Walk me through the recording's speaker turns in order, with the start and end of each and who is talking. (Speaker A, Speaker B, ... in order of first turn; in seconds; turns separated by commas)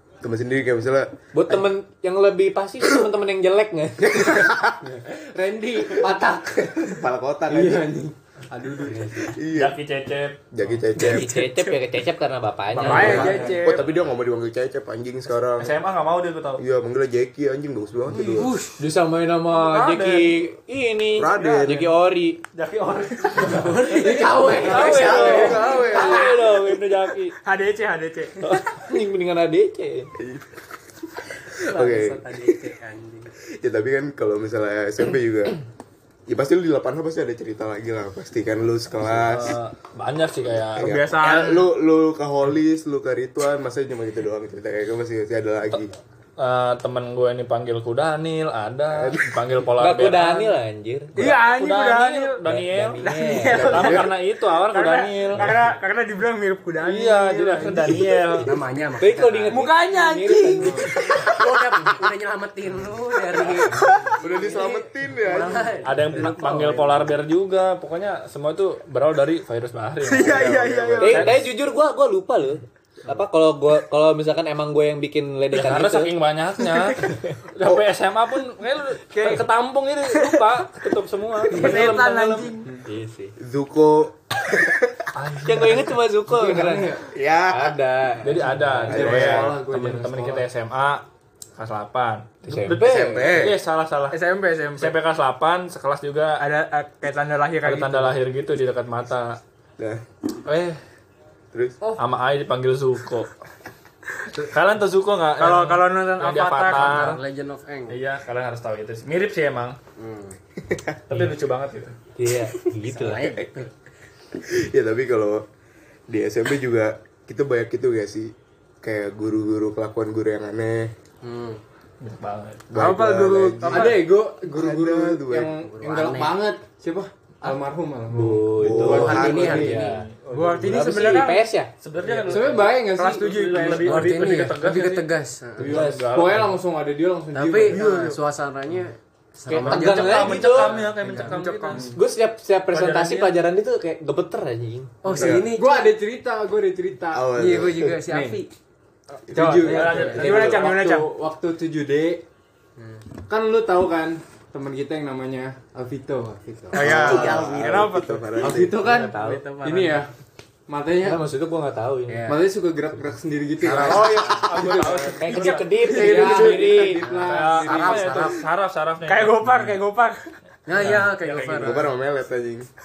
Speaker A: 0.2-1.7, Speaker B: 1.3-4.6, Speaker A: 4.2-4.7, Speaker C: 4.8-9.3, Speaker A: 6.8-7.9, Speaker A: 9.2-9.8, Speaker D: 9.5-10.4, Speaker A: 10.5-11.5, Speaker B: 10.9-13.5, Speaker E: 12.8-13.8, Speaker D: 12.8-13.4, Speaker A: 12.8-15.8, Speaker D: 15.6-16.6, Speaker A: 16.6-18.6, Speaker F: 18.1-18.8, Speaker B: 18.8-22.4, Speaker D: 19.5-20.4, Speaker A: 21.1-21.9, Speaker D: 22.5-27.3, Speaker F: 23.4-26.4, Speaker B: 24.5-24.8, Speaker A: 24.7-26.4, Speaker E: 27.4-28.6, Speaker B: 28.8-30.1, Speaker A: 30.2-30.5, Speaker F: 31.6-33.3, Speaker A: 31.6-32.4, Speaker A: 33.5-35.6, Speaker A: 36.3-39.6, Speaker D: 39.2-41.0, Speaker A: 40.7-45.9, Speaker E: 40.8-41.7, Speaker D: 46.4-50.5, Speaker A: 48.9-49.4, Speaker B: 49.8-51.2, Speaker E: 51.1-52.4, Speaker D: 51.1-55.6, Speaker B: 52.4-54.0, Speaker E: 53.0-54.1, Speaker A: 53.5-54.1, Speaker E: 54.7-58.3, Speaker D: 56.8-58.5, Speaker F: 58.4-59.7, Speaker B: 59.0-60.9, Speaker E: 59.5-61.3, Speaker C: 60.6-60.8, Speaker F: 61.1-67.1, Speaker E: 63.7-64.2, Speaker A: 64.2-65.9, Speaker D: 65.8-71.4, Speaker E: 70.0-71.3, Speaker A: 70.2-71.4, Speaker B: 71.0-76.1, Speaker D: 75.5-82.6, Speaker B: 77.0-77.3, Speaker E: 80.1-80.4, Speaker E: 81.5-82.7, Speaker B: 82.8-83.3, Speaker A: 83.4-85.0, Speaker D: 85.1-86.0, Speaker B: 85.5-88.9, Speaker C: 86.3-87.0, Speaker A: 87.1-87.8, Speaker D: 88.2-91.0, Speaker C: 88.8-90.4, Speaker A: 88.9-89.5, Speaker D: 91.6-94.2, Speaker B: 92.5-93.2, Speaker A: 92.8-93.6, Speaker E: 94.1-95.0, Speaker D: 94.8-96.4, Speaker E: 96.4-98.2, Speaker D: 97.6-99.4, Speaker D: 100.4-100.8, Speaker A: 101.5-101.8, Speaker D: 102.0-103.3, Speaker D: 104.3-107.2, Speaker E: 105.4-107.1, Speaker F: 106.7-108.0, Speaker D: 107.9-109.8, Speaker F: 110.0-110.4, Speaker A: 110.7-110.9, Speaker D: 111.1-111.9, Speaker B: 112.2-113.4, Speaker F: 112.8-113.7, Speaker A: 114.3-115.4, Speaker A: 116.1-120.9, Speaker F: 121.2-121.6, Speaker D: 122.0-122.7, Speaker A: 122.7-125.5, Speaker E: 122.8-124.0, Speaker C: 123.7-130.0, Speaker F: 125.5-126.4, Speaker B: 128.1-130.0, Speaker A: 128.6-129.6, Speaker F: 128.8-130.0, Speaker D: 129.7-130.9, Speaker E: 130.3-131.4, Speaker B: 130.6-131.7, Speaker D: 131.8-136.6, Speaker C: 132.0-133.8, Speaker E: 132.9-134.4, Speaker F: 133.7-135.8, Speaker C: 135.6-137.8, Speaker B: 135.6-136.1, Speaker F: 137.3-141.7, Speaker E: 137.7-138.2, Speaker B: 139.5-140.8, Speaker D: 139.5-141.9, Speaker E: 141.2-141.8, Speaker C: 141.7-142.0, Speaker B: 141.9-144.9, Speaker D: 142.7-143.3, Speaker F: 145.0-146.0, Speaker A: 145.1-145.5, Speaker C: 145.2-147.3, Speaker A: 147.1-148.0, Speaker F: 147.3-148.5, Speaker C: 148.1-148.4, Speaker E: 149.3-151.1, Speaker C: 149.3-152.2, Speaker D: 149.7-150.5, Speaker F: 149.7-150.5, Speaker F: 152.8-153.1, Speaker C: 153.3-156.8, Speaker E: 156.7-158.3, Speaker A: 156.7-158.8, Speaker F: 156.8-157.8, Speaker C: 158.4-160.1, Speaker B: 158.7-159.5, Speaker F: 158.8-160.0, Speaker C: 160.7-161.2, Speaker B: 161.0-162.3, Speaker F: 162.1-162.5, Speaker C: 162.2-165.1, Speaker F: 163.6-164.9, Speaker D: 163.8-165.8, Speaker B: 165.2-167.1, Speaker C: 165.9-168.3, Speaker F: 165.9-168.4, Speaker A: 165.9-166.3, Speaker D: 167.2-169.7, Speaker E: 169.0-170.2, Speaker F: 170.7-171.9, Speaker D: 170.7-171.8, Speaker A: 171.5-172.7